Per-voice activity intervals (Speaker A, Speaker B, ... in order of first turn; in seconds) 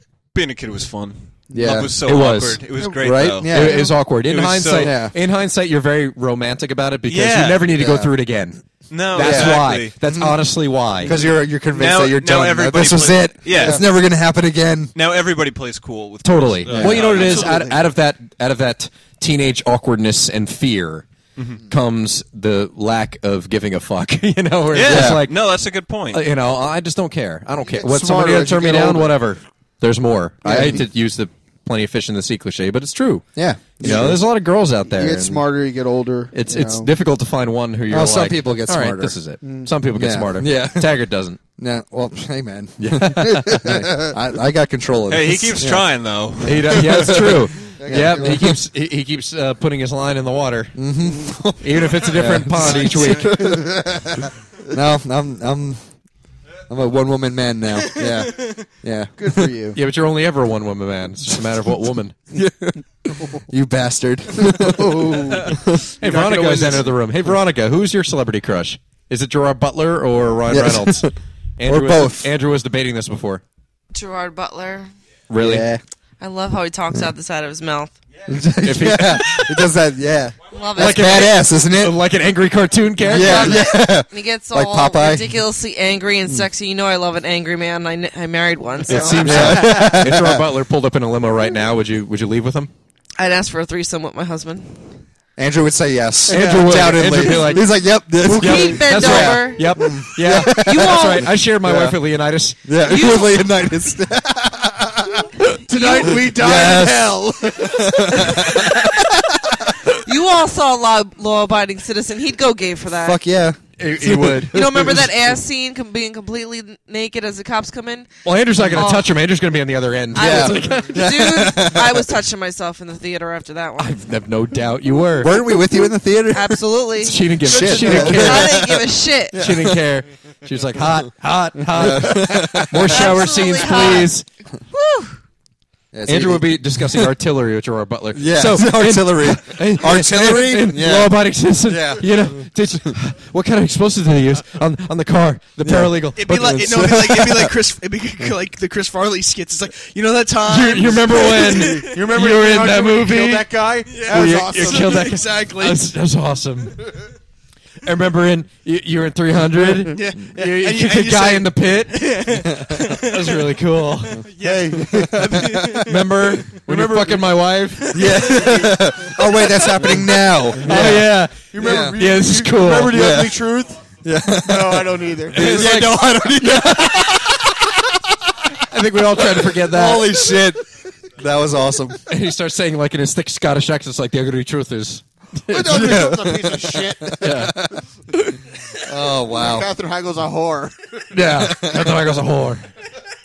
Speaker A: 0.3-5.1, 7.0-7.7, 8.9-10.0, 11.7-13.8, 14.9-17.7, 21.4-21.6, 24.7-26.3, 45.1-47.4
Speaker B: 1.5-1.9, 3.0-3.9, 4.8-5.1, 7.7-8.1, 9.2-10.4, 11.0-14.9, 16.7-17.2, 24.8-25.2, 30.4-30.8, 33.3-34.2, 37.9-39.2, 39.9-41.0, 41.6-45.9, 46.7-48.6, 50.7-54.1, 54.7-55.8, 56.7-59.5, 62.3-65.8, 70.5-71.1, 71.6-72.3, 75.4-75.8, 78.3-82.0, 83.0-85.3, 88.9-90.5, 95.4-102.0, 102.6-105.3, 106.0-109.2, 113.0-115.1, 120.1-122.1, 125.2-126.7, 127.4-129.8, 131.7-133.3, 135.9-137.1, 138.1-142.2, 145.6-147.5, 165.4-165.8, 167.9-171.9, 172.8-173.4, 174.0-178.0, 179.2-182.0, 185.6-189.7, 191.3-192.0
Speaker C: 2.0-2.6, 3.4-11.2, 16.2-21.1, 21.7-25.5, 26.1-33.2, 33.8-35.5, 36.3-41.4, 42.8-43.9, 46.4-50.8, 51.6-53.6, 59.7-62.2, 66.0-73.4, 75.3-75.7, 78.6-79.7, 80.8-83.7, 88.8-92.7, 96.3-102.7, 113.8-114.9, 118.2-121.1, 123.8-125.5, 127.0-128.7, 129.3-134.2, 136.1-146.9, 150.4-153.5, 154.1-156.9, 157.8-164.2, 165.8-168.4, 170.6-173.0, 175.3-176.5, 178.6-180.3, 182.1-186.1, 187.1-187.7, 191.1-192.7
Speaker D: 27.7-29.2, 33.9-34.1, 34.9-36.9, 39.4-39.7, 47.8-48.3, 53.0-54.3, 59.2-59.8, 64.6-65.5, 96.4-96.7, 105.7-108.7, 151.2-155.0, 164.4-165.6, 170.7-173.8, 174.4-175.8, 185.5-187.5, 189.3-191.0
Speaker E: 52.6-53.3, 58.0-58.5, 66.0-67.3, 146.2-151.9, 153.9-155.9, 159.9-167.3, 168.0-168.7
Speaker F: 73.9-74.9, 76.2-77.9, 80.5-81.4, 83.1-89.8, 93.2-94.8, 98.2-101.3, 102.8-103.5, 105.7-106.2, 109.9-113.2, 114.5-118.1, 118.7-119.2, 120.1-124.0, 126.3-129.5, 132.8-134.2, 134.7-135.2